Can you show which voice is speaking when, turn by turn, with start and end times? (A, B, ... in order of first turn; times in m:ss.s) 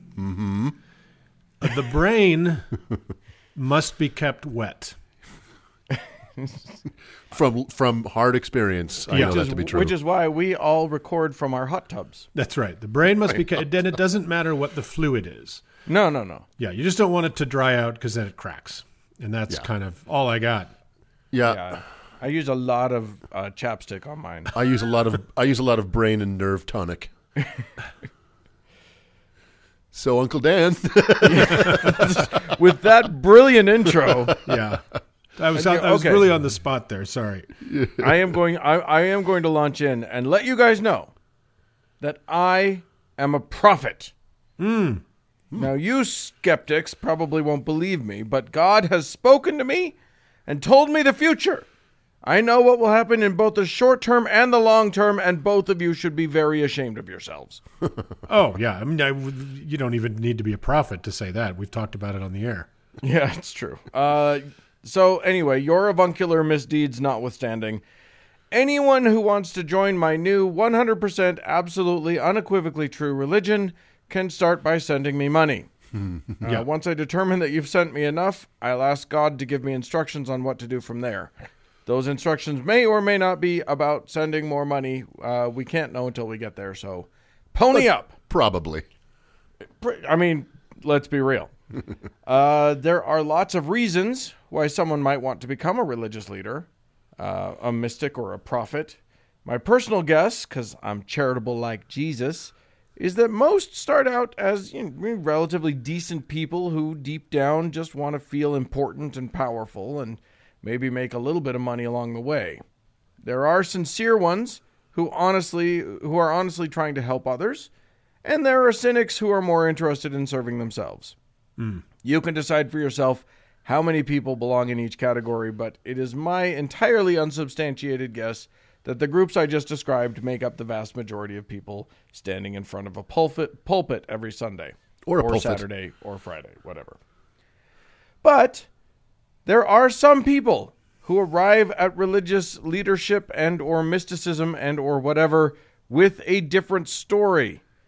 0:00.2-0:00.8 A
0:01.6-0:02.7 B
0:03.6-0:05.0 B
0:05.9-0:06.7 C
0:07.3-0:09.9 A
0:09.1-0:09.4 B
0:09.1-0:12.3 C
0:12.3-0:15.6 B
0:15.9-0:16.4 C
0:16.6-0:20.7 B
0:21.3-0:21.8 A
0:21.4-0:24.5 C
0:24.5-0:27.1 A
0:27.4-0:27.7 C
0:29.9-0:32.2 A
0:31.2-0:34.4 C
0:34.4-0:37.5 B
0:35.5-0:36.2 C
0:37.6-0:38.2 A
0:38.0-0:41.1 C
0:42.0-0:44.1 C
0:44.6-0:45.0 B
0:45.6-0:50.0 C
0:50.5-0:51.7 C
0:52.2-0:57.6 C
0:58.3-1:02.7 B
1:03.0-1:07.8 C
1:08.5-1:15.7 C
1:16.4-1:21.3 C
1:21.9-1:28.1 C
1:27.8-1:28.8 A
1:29.7-1:31.5 C
1:32.2-1:36.7 C
1:37.2-1:52.6 C
1:53.2-1:57.7 C
1:58.2-2:01.2 C
2:01.6-2:01.8 B
2:02.0-2:17.0 C
2:15.1-2:15.6 A
2:18.2-2:18.7 C
2:19.4-2:27.6 C